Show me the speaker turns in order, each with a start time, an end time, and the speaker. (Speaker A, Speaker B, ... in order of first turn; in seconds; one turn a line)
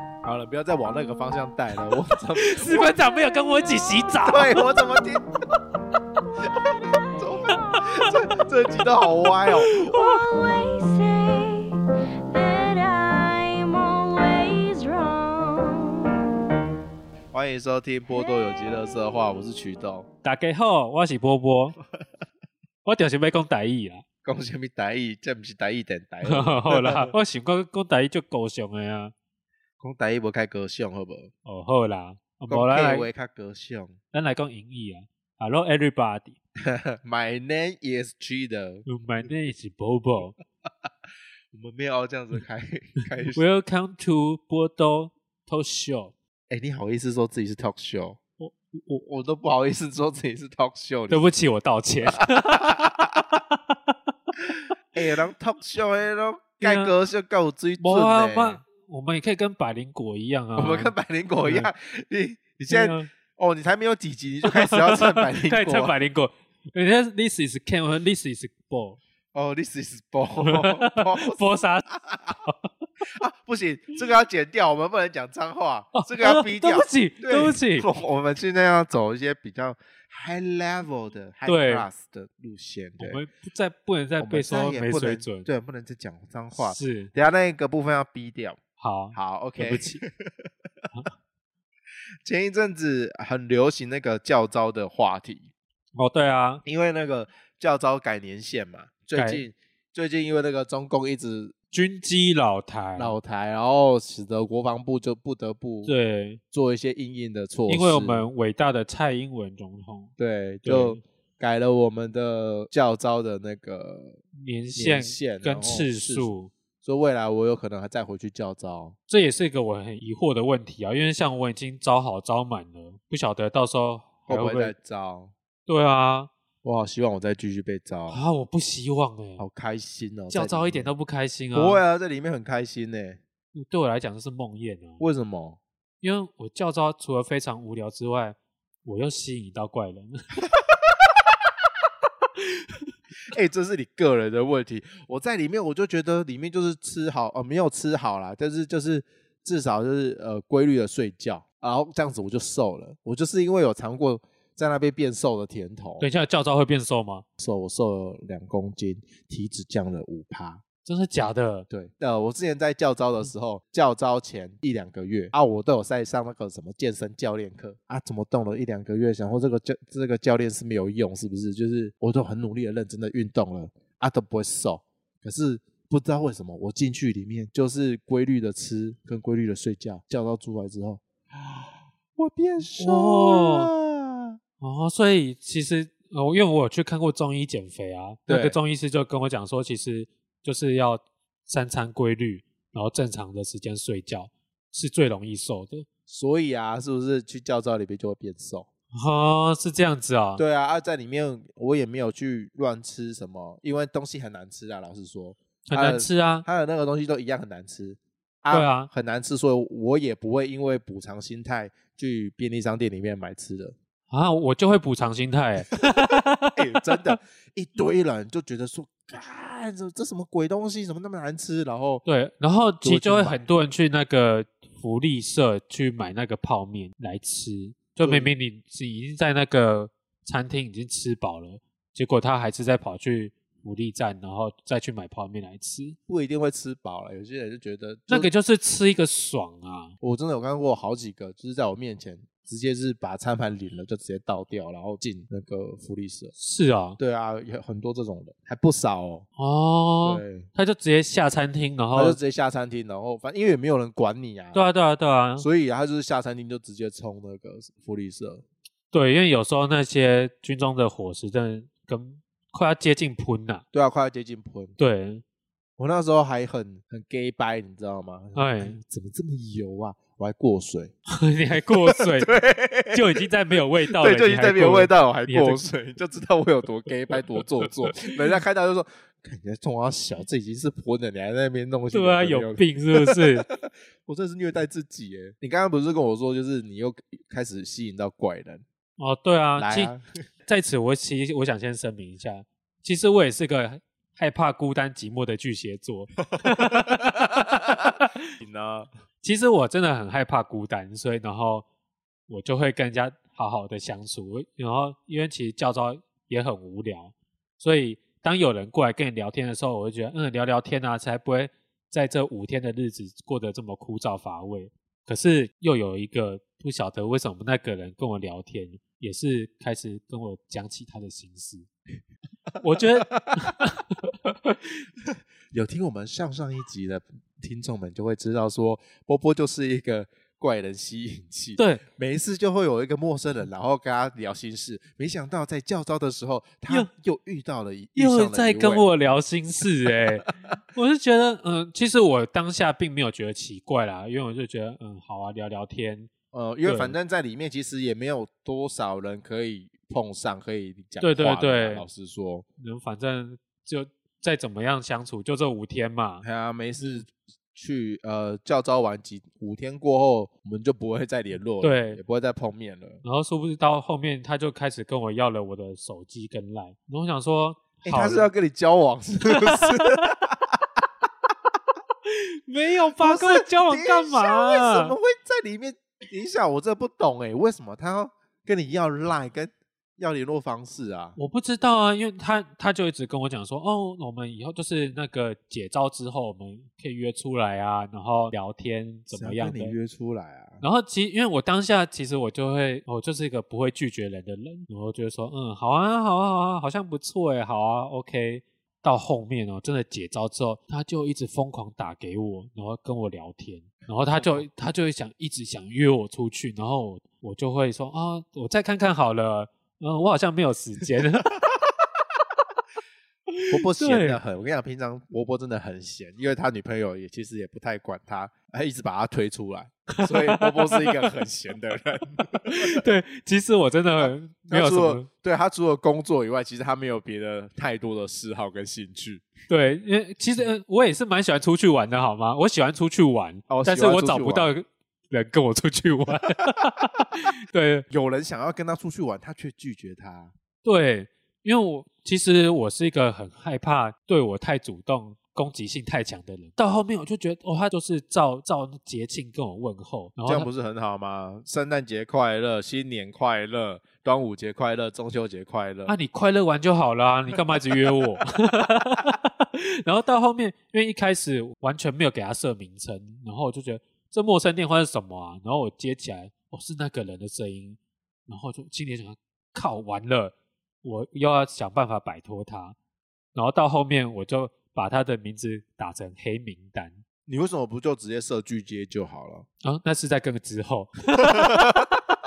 Speaker A: 0.2-2.9
Speaker B: 2.4-4.6
Speaker A: 4.3-5.2
Speaker A: 7.1-9.9
Speaker C: 9.7-16.2
Speaker A: 17.3-20.1
Speaker B: 20.2-21.8
Speaker B: 22.8-24.0
Speaker A: 24.2-27.1
Speaker B: 26.2-29.1
Speaker A: 29.8-31.3
Speaker B: 31.4-33.1
Speaker A: 32.5-34.0
Speaker B: 34.1-36.4
Speaker A: 36.6-38.9
Speaker B: 38.9-40.4
Speaker A: 41.5-43.4
Speaker B: 43.3-46.1
Speaker A: 46.5-48.2
Speaker A: 48.7-51.2
Speaker B: 51.1-53.8
Speaker A: 52.3-53.2
Speaker A: 54.9-58.6
Speaker B: 56.6-56.9
Speaker B: 57.8-61.7
Speaker A: 60.5-65.9
Speaker B: 62.7-63.1
Speaker B: 64.5-69.0
Speaker A: 69.3-72.4
Speaker B: 70.4-71.8
Speaker A: 73.0-83.2
Speaker B: 75.9-77.9
Speaker B: 81.4-81.9
Speaker B: 83.0-85.5
Speaker A: 84.2-88.6
Speaker B: 86.6-87.1
Speaker B: 88.8-90.0
Speaker A: 89.1-90.5
Speaker A: 92.2-95.5
Speaker B: 96.0-96.6
Speaker A: 96.6-101.5
Speaker B: 99.2-99.4
Speaker B: 101.7-103.1
Speaker A: 103.0-105.9
Speaker B: 105.8-106.4
Speaker A: 106.5-108.3
Speaker B: 107.7-110.1
Speaker A: 110.2-114.2
Speaker B: 110.6-111.0
Speaker B: 114.4-116.5
Speaker A: 114.8-116.3
Speaker A: 116.8-119.0
Speaker B: 119.1-124.7
Speaker A: 124.3-125.3
Speaker B: 125.7-126.3
Speaker A: 126.6-128.2
Speaker B: 128.1-129.4
Speaker A: 129.4-130.9
Speaker B: 130.3-131.8
Speaker A: 131.5-133.2
Speaker B: 133.5-135.0
Speaker A: 135.0-135.6
Speaker B: 136.0-140.2
Speaker A: 143.3-156.0
Speaker B: 156.0-157.2
Speaker A: 157.4-160.6
Speaker B: 160.8-161.7
Speaker A: 161.7-184.4
Speaker B: 182.7-183.7
Speaker B: 184.6-195.9
Speaker A: 188.3-188.6
Speaker A: 196.1-198.7
Speaker B: 198.9-200.4
Speaker A: 200.4-213.7
Speaker B: 205.7-206.4
Speaker B: 208.5-208.9
Speaker B: 214.1-216.8
Speaker A: 216.5-222.0
Speaker B: 222.0-236.0
Speaker A: 222.8-223.4
Speaker A: 228.0-228.3
Speaker A: 236.1-238.3
Speaker B: 238.1-239.9
Speaker A: 240.0-246.3
Speaker B: 246.4-247.0
Speaker A: 247.0-249.2
Speaker B: 249.4-252.2
Speaker A: 250.0-250.5
Speaker A: 251.9-254.6
Speaker B: 254.5-255.5
Speaker A: 255.4-258.4
Speaker B: 258.9-263.6
Speaker A: 263.7-264.7
Speaker B: 264.8-265.2
Speaker A: 265.8-270.9
Speaker B: 268.3-268.8
Speaker B: 271.1-272.4
Speaker A: 271.7-273.3
Speaker B: 272.9-275.6
Speaker A: 273.9-288.6
Speaker B: 281.9-283.5
Speaker B: 289.0-289.9
Speaker A: 289.6-290.0
Speaker B: 290.4-298.2
Speaker A: 296.4-298.9
Speaker B: 299.2-301.6
Speaker B: 302.3-321.7
Speaker B: 322.6-324.1
Speaker A: 323.2-323.6
Speaker A: 325.1-338.9
Speaker B: 331.6-331.8
Speaker B: 337.9-346.1
Speaker A: 346.3-352.4
Speaker B: 346.6-346.9
Speaker B: 351.0-351.9
Speaker B: 352.6-356.2
Speaker A: 356.2-363.0
Speaker B: 361.6-362.0
Speaker B: 363.0-368.3
Speaker A: 367.8-370.8
Speaker B: 369.3-370.1
Speaker B: 372.0-374.9
Speaker A: 373.0-381.1
Speaker B: 381.2-389.8
Speaker A: 389.1-390.6
Speaker B: 390.6-411.3
Speaker B: 413.3-414.2
Speaker A: 413.5-422.8
Speaker B: 419.9-421.1
Speaker B: 422.4-425.1
Speaker A: 424.0-429.3
Speaker B: 429.5-437.8
Speaker A: 433.5-434.5
Speaker A: 437.9-440.3
Speaker B: 440.6-450.5
Speaker A: 450.2-455.9
Speaker B: 455.9-472.8
Speaker A: 457.5-458.0
Speaker B: 473.3-477.0
Speaker A: 477.3-479.4
Speaker B: 479.6-481.9
Speaker A: 481.2-481.9